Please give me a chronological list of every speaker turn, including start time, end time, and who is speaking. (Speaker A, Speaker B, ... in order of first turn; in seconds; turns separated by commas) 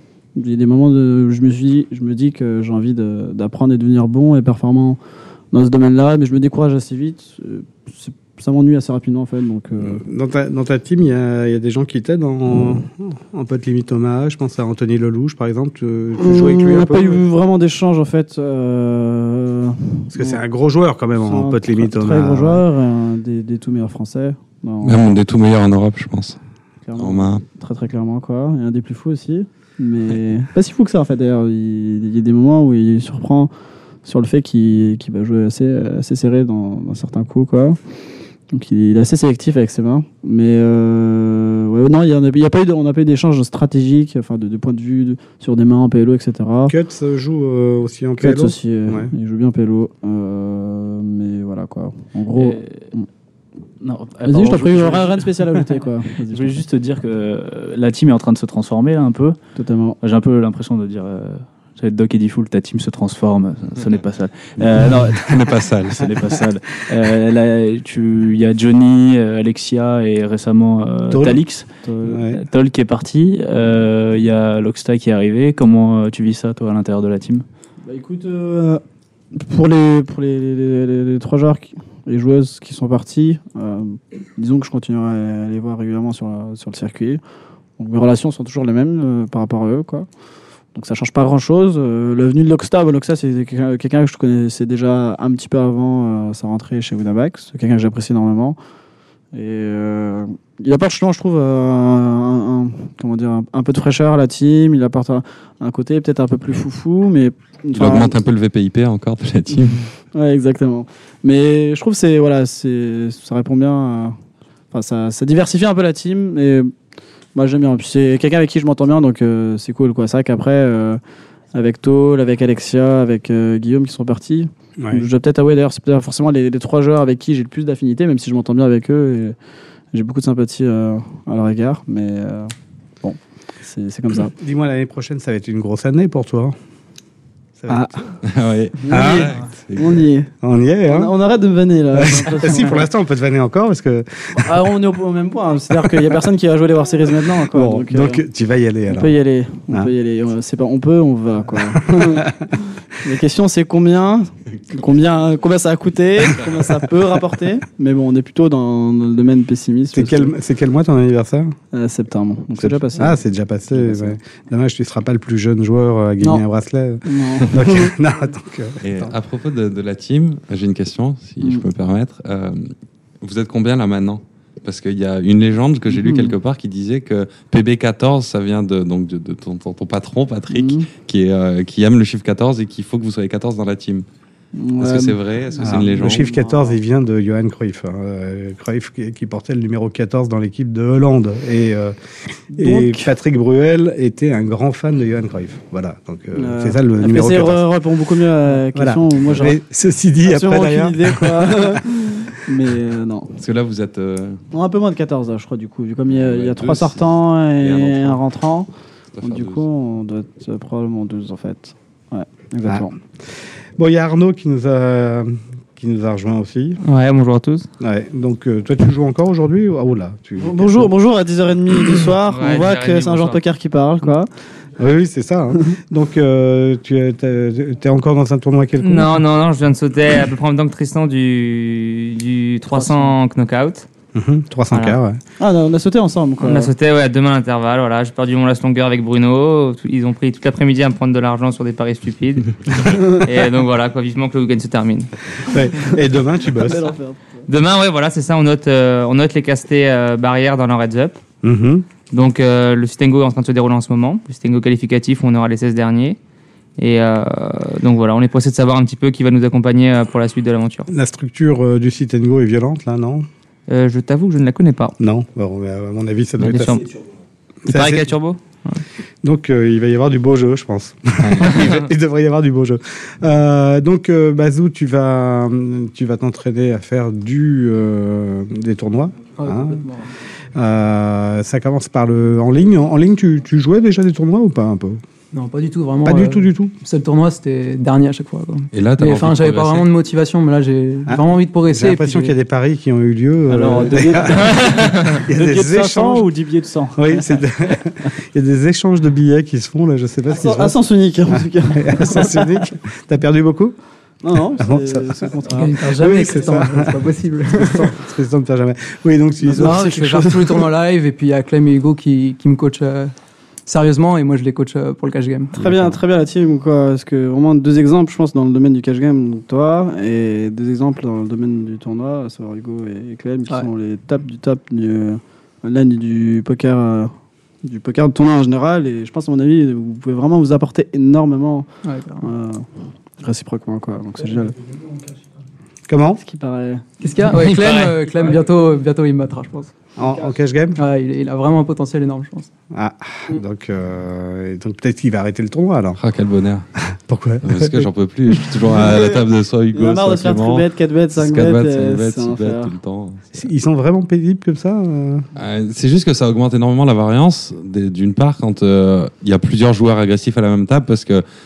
Speaker A: 0.3-5.0, Speaker A: 5.5-10.0, Speaker B: 9.8-17.2, Speaker A: 16.2-20.4, Speaker B: 20.1-22.6, Speaker A: 21.2-25.1, Speaker C: 24.8-26.4, Speaker A: 26.9-33.5, Speaker C: 27.0-27.4, Speaker A: 34.0-37.8, Speaker A: 38.5-46.7, Speaker B: 46.7-49.1, Speaker A: 48.2-53.1, Speaker D: 52.3-52.8, Speaker D: 53.8-55.4, Speaker A: 54.2-56.6, Speaker D: 56.3-59.4, Speaker A: 59.5-60.0, Speaker D: 60.0-65.4, Speaker C: 65.2-66.0, Speaker D: 66.0-71.7, Speaker B: 71.1-71.4, Speaker A: 71.8-72.2, Speaker B: 72.0-72.4, Speaker D: 72.3-77.4, Speaker A: 77.8-78.8, Speaker A: 79.3-87.2, Speaker A: 87.8-90.1, Speaker A: 90.7-98.6, Speaker A: 99.3-108.1, Speaker C: 107.7-109.8, Speaker A: 110.1-114.2, Speaker A: 114.7-116.7, Speaker A: 117.3-121.0, Speaker A: 121.5-129.3, Speaker B: 124.8-125.0, Speaker A: 129.9-132.5, Speaker A: 133.0-134.3, Speaker B: 134.4-136.5, Speaker B: 137.6-137.9, Speaker A: 137.7-138.0, Speaker C: 138.2-140.0, Speaker A: 138.8-140.3, Speaker B: 138.9-139.4, Speaker B: 140.4-141.1, Speaker A: 140.8-142.9, Speaker B: 141.9-144.6, Speaker A: 144.3-148.2, Speaker B: 145.7-146.1, Speaker B: 147.2-149.2, Speaker A: 148.9-152.3, Speaker B: 151.8-152.3, Speaker A: 153.0-160.3, Speaker B: 159.9-161.5, Speaker A: 161.7-164.2, Speaker B: 162.6-169.1, Speaker A: 167.1-167.9, Speaker C: 168.8-184.1, Speaker A: 175.9-176.3, Speaker A: 180.5-180.9, Speaker A: 184.5-186.8, Speaker C: 184.8-186.3, Speaker B: 185.6-191.9, Speaker A: 192.5-193.1, Speaker B: 192.5-197.7, Speaker A: 196.3-199.6, Speaker B: 198.6-201.8, Speaker A: 200.2-203.3, Speaker C: 203.4-204.4, Speaker A: 204.5-208.7, Speaker C: 206.1-208.2, Speaker C: 209.2-209.6, Speaker A: 209.2-212.9, Speaker B: 212.6-212.9, Speaker B: 213.8-216.8, Speaker E: 216.8-217.7, Speaker B: 217.8-220.9, Speaker A: 220.4-224.3, Speaker E: 222.2-223.4, Speaker B: 224.8-229.2, Speaker E: 228.8-233.9, Speaker A: 232.7-233.1, Speaker B: 234.1-235.2, Speaker E: 234.7-235.0, Speaker A: 235.4-236.7, Speaker E: 236.4-245.1, Speaker B: 245.5-246.9, Speaker A: 246.5-247.4, Speaker E: 247.5-251.2, Speaker B: 251.4-251.8, Speaker E: 252.1-256.2, Speaker E: 256.8-260.9, Speaker B: 260.9-263.2, Speaker E: 263.7-264.9, Speaker B: 265.0-266.9, Speaker E: 266.4-266.8, Speaker B: 267.6-268.1, Speaker E: 267.7-268.8, Speaker B: 269.2-279.9, Speaker E: 271.4-271.8, Speaker F: 279.4-280.1, Speaker B: 280.5-285.0, Speaker F: 285.3-292.3, Speaker B: 286.0-286.7, Speaker C: 288.7-289.9, Speaker B: 291.1-296.3, Speaker D: 293.5-297.2, Speaker B: 296.9-303.8, Speaker A: 300.3-302.6, Speaker A: 304.2-305.8, Speaker B: 304.3-310.6, Speaker F: 305.5-307.8, Speaker A: 309.4-309.8, Speaker F: 309.5-313.1, Speaker F: 313.6-315.6, Speaker A: 315.6-327.1, Speaker A: 327.6-331.7, Speaker F: 331.8-332.3, Speaker A: 332.2-332.6, Speaker A: 333.2-334.6, Speaker B: 335.9-336.2, Speaker A: 336.2-336.9, Speaker F: 337.0-339.7, Speaker E: 337.5-337.9, Speaker B: 340.0-340.8, Speaker A: 340.0-340.3, Speaker F: 340.8-342.5, Speaker B: 342.7-346.0, Speaker C: 346.0-346.6, Speaker B: 346.9-348.7, Speaker C: 347.4-353.5, Speaker A: 348.8-349.2, Speaker A: 349.7-352.7, Speaker B: 353.3-355.2, Speaker C: 355.4-361.2